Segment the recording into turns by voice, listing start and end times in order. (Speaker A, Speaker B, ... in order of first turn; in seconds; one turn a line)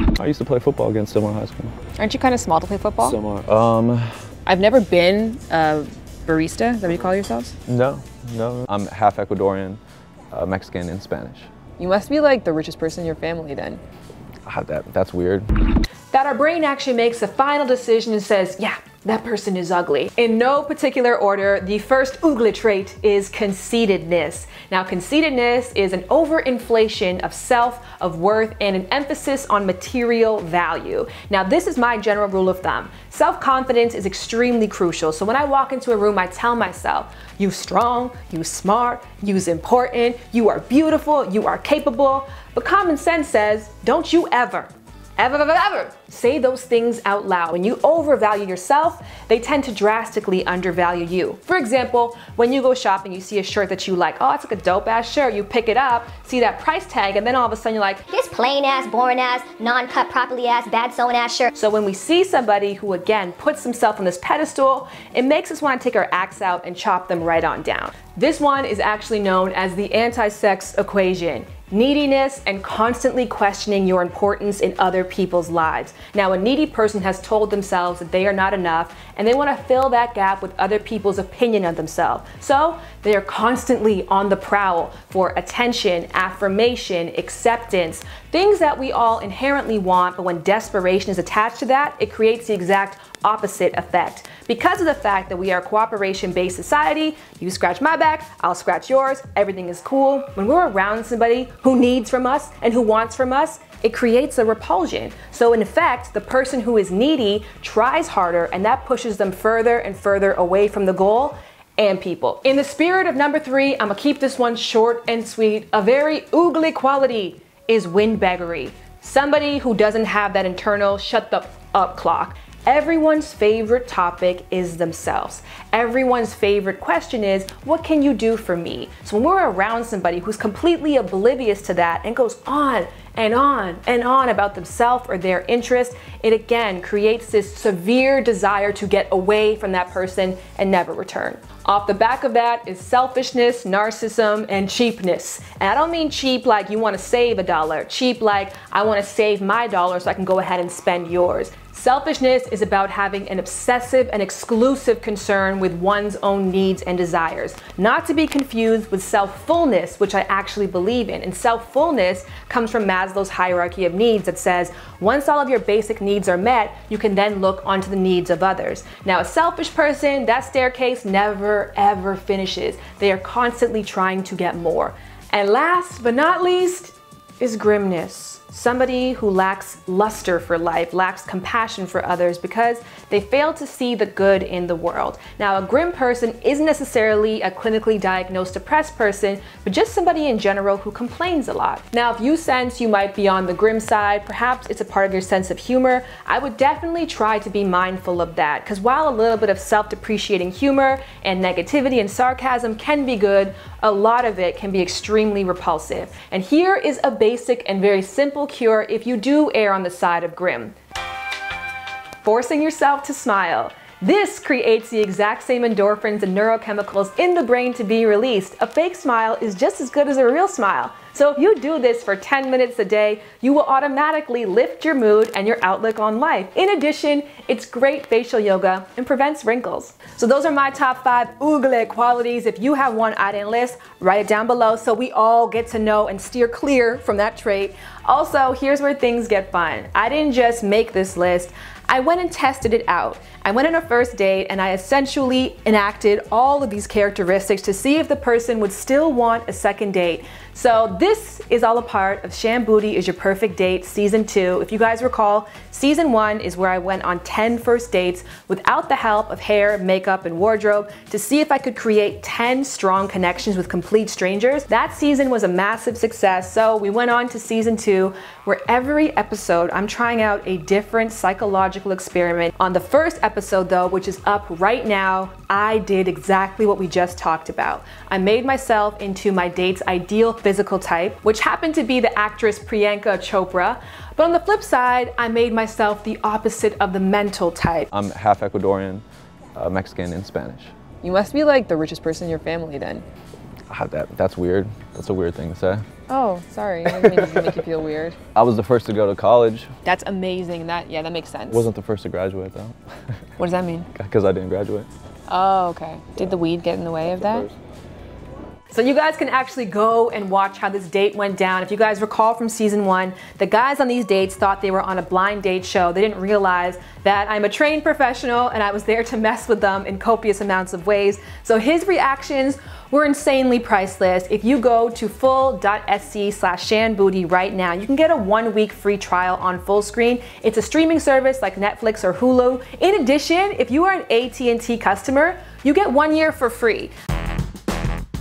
Speaker A: 0.2-1.7
Speaker B: 2.0-3.1
Speaker A: 3.0-4.2
Speaker B: 4.5-7.5
Speaker A: 7.7-9.8
Speaker A: 10.3-11.5
Speaker B: 11.8-13.8
Speaker A: 14.4-15.5
Speaker C: 16.1-58.0
Speaker D: 58.1-61.5
Speaker C: 61.5-210.7
Speaker C: 212.2-287.9
Speaker A: 287.9-289.0
Speaker A: 289.6-290.7
Speaker B: 291.0-293.0
Speaker A: 293.7-295.8
Speaker B: 296.1-298.1
Speaker A: 296.9-297.4
Speaker A: 298.3-299.7
Speaker B: 299.9-301.6
Speaker A: 301.5-302.8
Speaker B: 303.4-303.9
Speaker A: 303.9-304.9
Speaker B: 305.3-307.5
Speaker C: 308.7-336.9